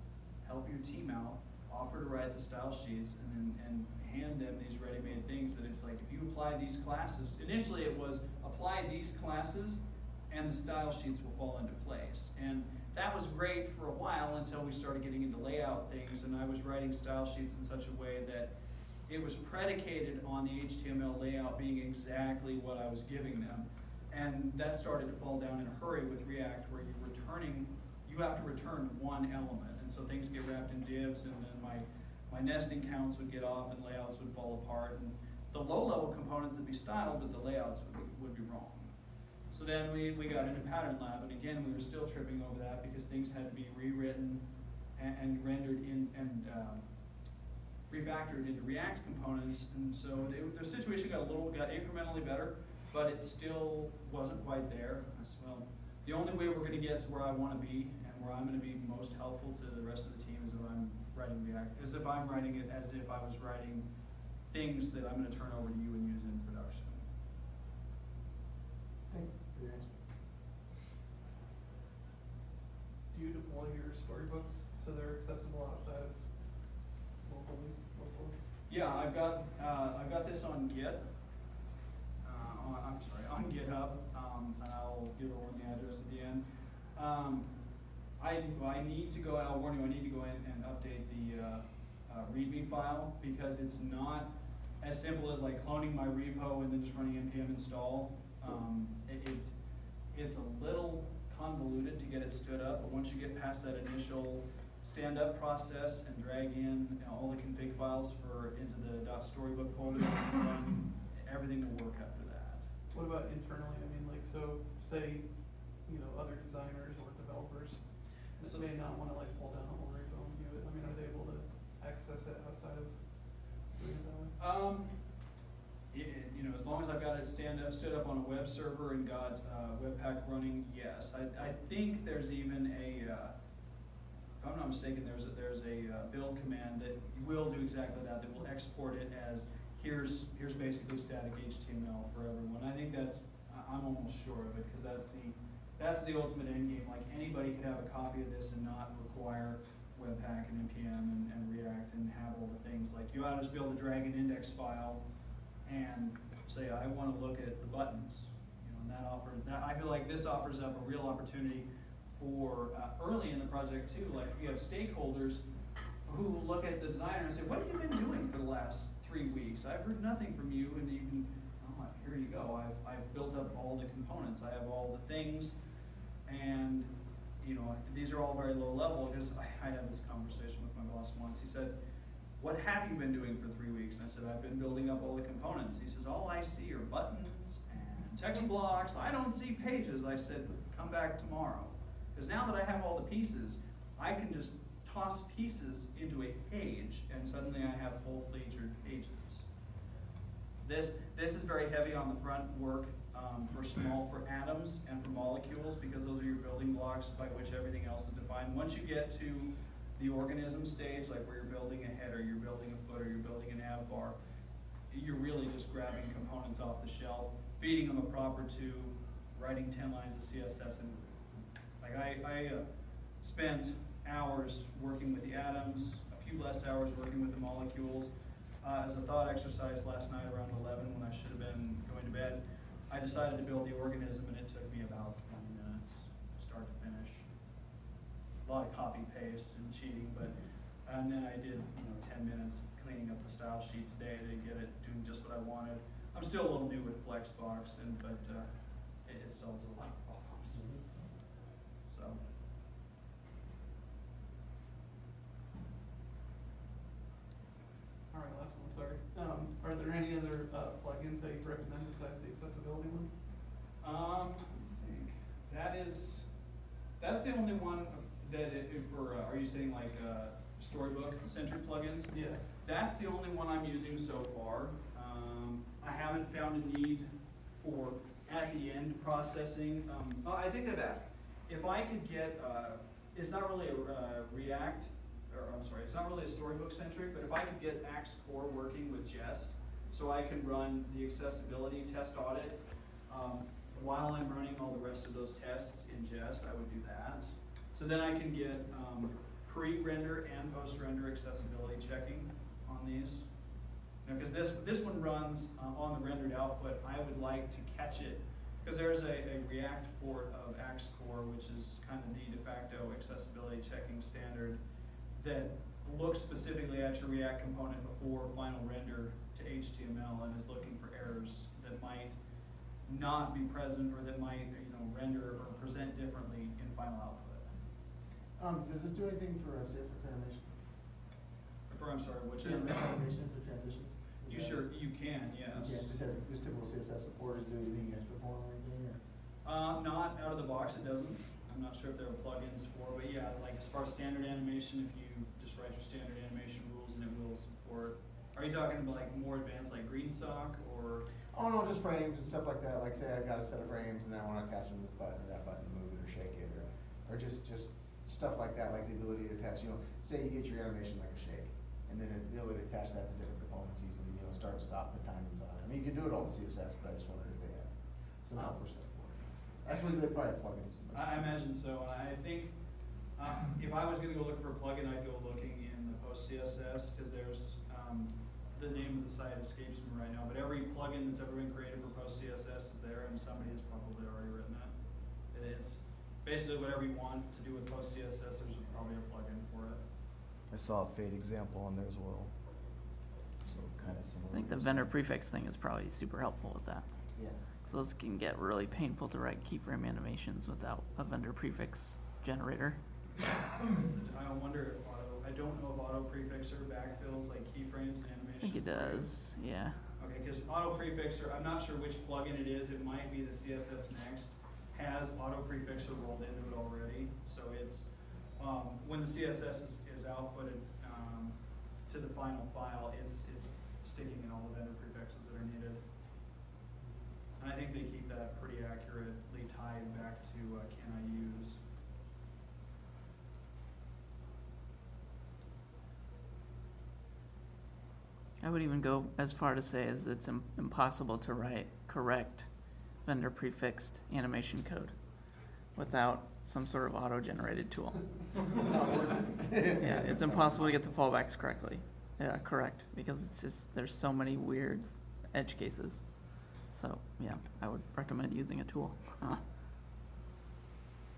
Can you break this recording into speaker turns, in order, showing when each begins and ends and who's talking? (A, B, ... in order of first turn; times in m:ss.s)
0:00.4-0:18.5 A
0:19.1-0:38.9 A
0:39.5-0:46.9 A
0:47.9-1:03.9 A
1:04.5-1:07.0 A
1:09.1-1:10.0 B
1:13.1-1:18.4 C
1:18.7-1:21.0 A
1:22.2-1:27.5 A
1:28.2-1:34.3 A
1:34.8-1:39.5 A
1:40.1-1:52.7 A
1:52.9-2:04.4 C
1:58.4-1:58.7 A
2:04.4-2:05.0 A
2:05.9-2:13.4 A
2:14.4-2:35.0 A
2:35.6-2:45.4 A
2:46.0-2:55.6 A
2:56.3-2:56.9 A
2:57.4-3:01.8 A
3:02.4-3:19.5 A
3:20.6-3:34.2 A
3:34.9-3:41.1 A
3:41.8-3:42.6 A
3:43.2-3:48.1 A
3:48.6-3:57.3 A
3:58.4-4:08.5 A
4:09.0-4:10.7 A
4:10.6-4:11.1 B
4:11.9-4:12.2 A
4:18.1-4:23.1 C
4:23.8-4:26.3 A
4:27.0-5:03.3 A
4:32.1-4:32.4 C
5:04.0-5:14.6 A
5:15.2-5:22.2 A
5:22.9-5:27.5 A
5:28.4-5:30.5 B
5:31.7-5:33.0 A
5:32.4-5:34.7 B
5:34.3-5:35.9 A
5:35.5-5:39.0 B
5:39.4-5:51.1 A
5:51.3-6:11.1 B
6:10.9-6:12.6 A
6:13.2-6:24.7 A
6:25.3-6:29.8 A
6:30.5-6:32.4 D
6:33.4-6:34.9 D
6:34.3-6:42.8 E
6:43.6-6:49.1 A
6:48.4-6:49.9 E
6:50.0-7:05.8 A
7:07.4-7:11.6 A
7:18.4-7:28.6 E
7:28.5-7:31.0 B
7:29.8-7:39.4 E